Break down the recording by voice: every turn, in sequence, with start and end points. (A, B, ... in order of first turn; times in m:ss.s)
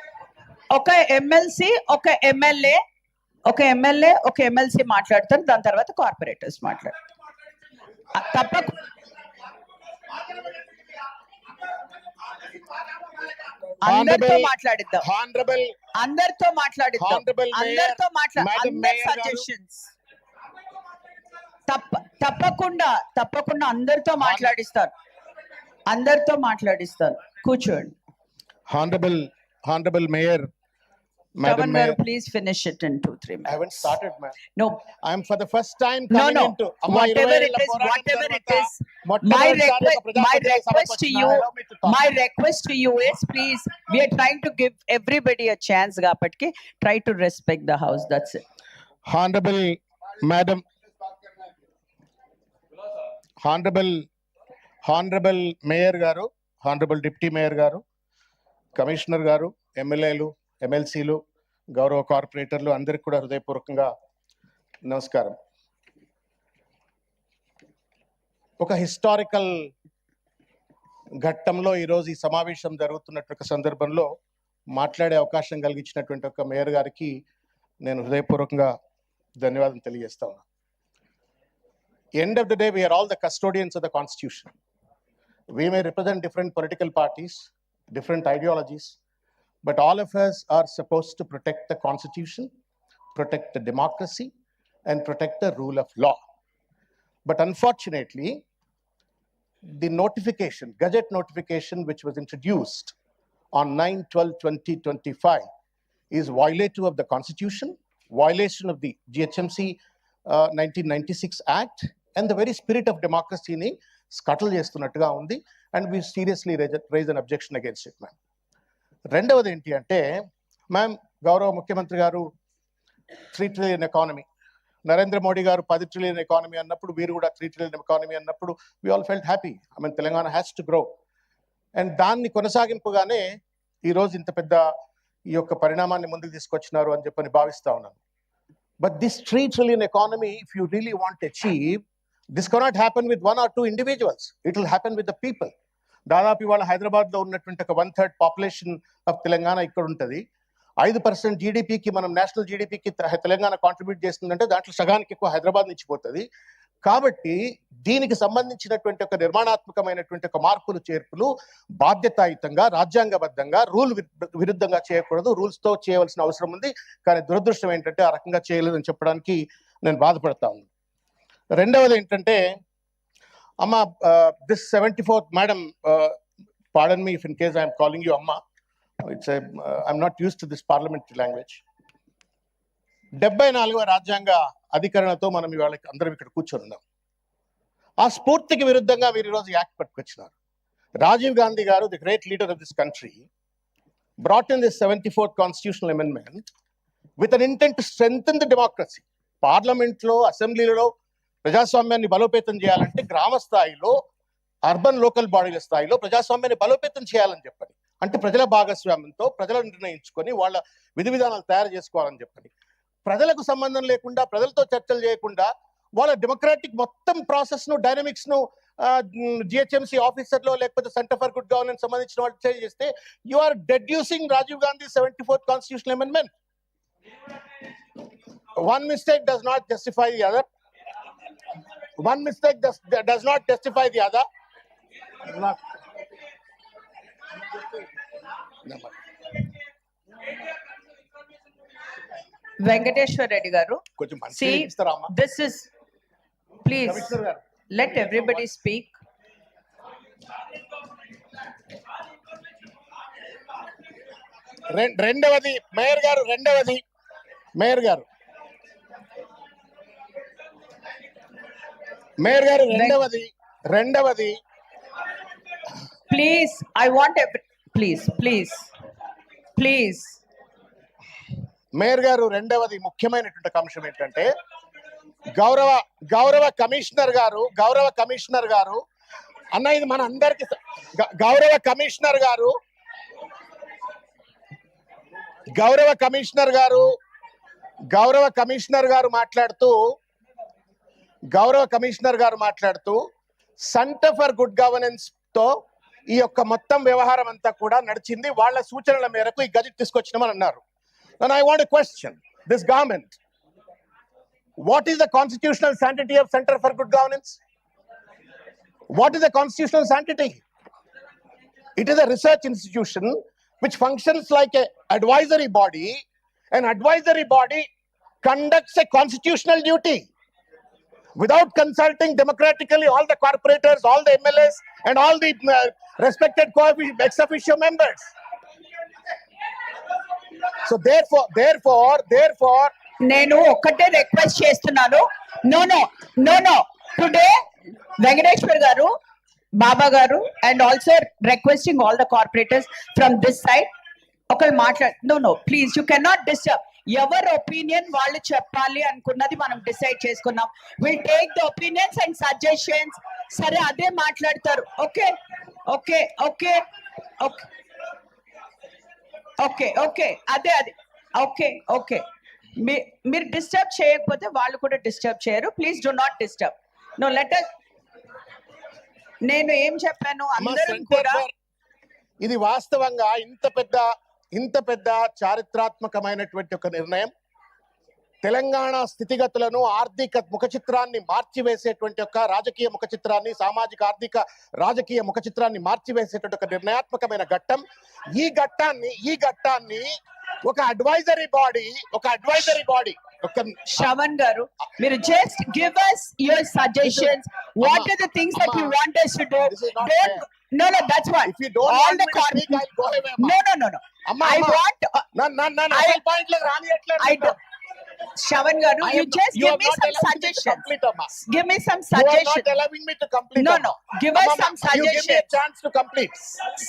0:00.7-0:02.8 A
0:03.4-0:06.9 A
0:08.1-0:08.8 A
0:13.8-0:15.0 A
0:13.8-0:14.5 B
0:15.0-0:15.7 B
0:16.0-0:19.9 A
0:17.0-0:19.4 B
0:21.7-0:24.9 A
0:24.2-0:24.5 B
0:25.9-0:27.9 A
0:28.7-0:30.5 B
0:31.4-0:32.0 B
0:31.4-0:33.9 A
0:33.4-0:34.3 B
0:34.6-0:34.8 A
0:35.0-0:42.0 B
0:36.1-0:48.4 A
0:49.0-0:50.6 B
0:53.4-0:54.0 B
0:54.8-0:57.8 B
0:58.7-1:01.2 B
1:01.7-1:03.9 B
1:04.8-1:05.4 B
1:08.6-1:09.7 B
1:11.2-1:14.1 B
1:14.7-1:17.2 B
1:17.8-1:18.7 B
1:19.4-1:20.4 B
1:22.2-1:24.5 B
1:25.5-1:29.0 B
1:29.6-1:32.5 B
1:33.1-1:34.3 B
1:34.9-1:36.2 B
1:37.2-1:38.4 B
1:39.8-1:42.9 B
1:43.5-1:45.4 B
1:46.1-1:58.1 B
1:59.1-2:00.0 B
2:00.7-2:02.2 B
2:03.3-2:04.2 B
2:04.8-2:10.9 B
2:11.8-2:13.2 B
2:13.8-2:14.6 B
2:15.3-2:18.0 B
2:18.8-2:21.8 B
2:22.3-2:25.5 B
2:26.1-2:30.2 B
2:30.8-2:36.2 B
2:36.8-2:50.7 B
2:51.6-2:52.4 B
2:53.6-2:56.1 B
2:56.7-2:58.4 B
2:59.0-3:01.6 B
3:03.2-3:06.8 B
3:08.0-3:10.3 B
3:11.0-3:13.2 B
3:14.2-3:16.4 B
3:17.2-3:20.9 B
3:21.4-3:23.9 B
3:24.6-3:32.5 B
3:33.0-3:46.3 B
3:48.5-3:50.4 B
3:52.0-3:54.2 B
3:55.2-3:55.6 B
3:58.6-3:58.9 B
4:02.6-4:05.7 A
4:04.0-4:05.1 B
4:06.6-4:07.1 A
4:06.8-4:07.4 B
4:07.7-4:08.9 A
4:07.9-4:08.4 B
4:14.7-4:16.8 B
4:17.6-4:18.0 B
4:22.2-4:24.4 B
4:22.7-4:23.0 A
4:26.1-4:28.7 A
4:29.6-4:30.2 A
4:31.8-4:34.3 B
4:35.3-4:38.8 B
4:39.5-4:42.5 B
4:45.5-4:46.8 B
4:47.9-4:49.8 B
4:51.3-4:53.0 B
4:53.6-4:55.5 B
4:56.1-5:00.6 B
5:01.2-5:03.1 B
5:04.6-5:07.4 B
5:08.9-5:10.4 B
5:11.8-5:16.0 B
5:16.5-5:17.7 B
5:18.2-5:20.1 B
5:21.2-5:28.1 B
5:30.6-5:32.7 B
5:33.0-5:37.3 A
5:38.0-5:38.9 A
5:39.6-5:43.7 A
5:44.3-5:55.1 A
5:55.7-5:56.6 A
5:57.2-5:57.5 A
5:59.4-6:02.0 A
6:02.6-6:07.5 A
6:09.2-6:11.2 A
6:10.4-6:11.3 B
6:12.2-6:17.1 B
6:18.2-6:29.9 B
6:30.4-6:33.9 B
6:33.7-6:42.6 A
6:36.8-6:38.8 B
6:39.5-6:40.2 B
6:41.2-6:43.4 B
6:43.2-6:45.0 A
6:44.1-6:44.6 B
6:45.1-6:47.4 B
6:45.7-6:46.0 A
6:47.0-6:47.3 A
6:48.1-6:52.5 A
6:48.8-6:51.1 B
6:51.9-6:56.4 B
6:53.4-6:55.3 A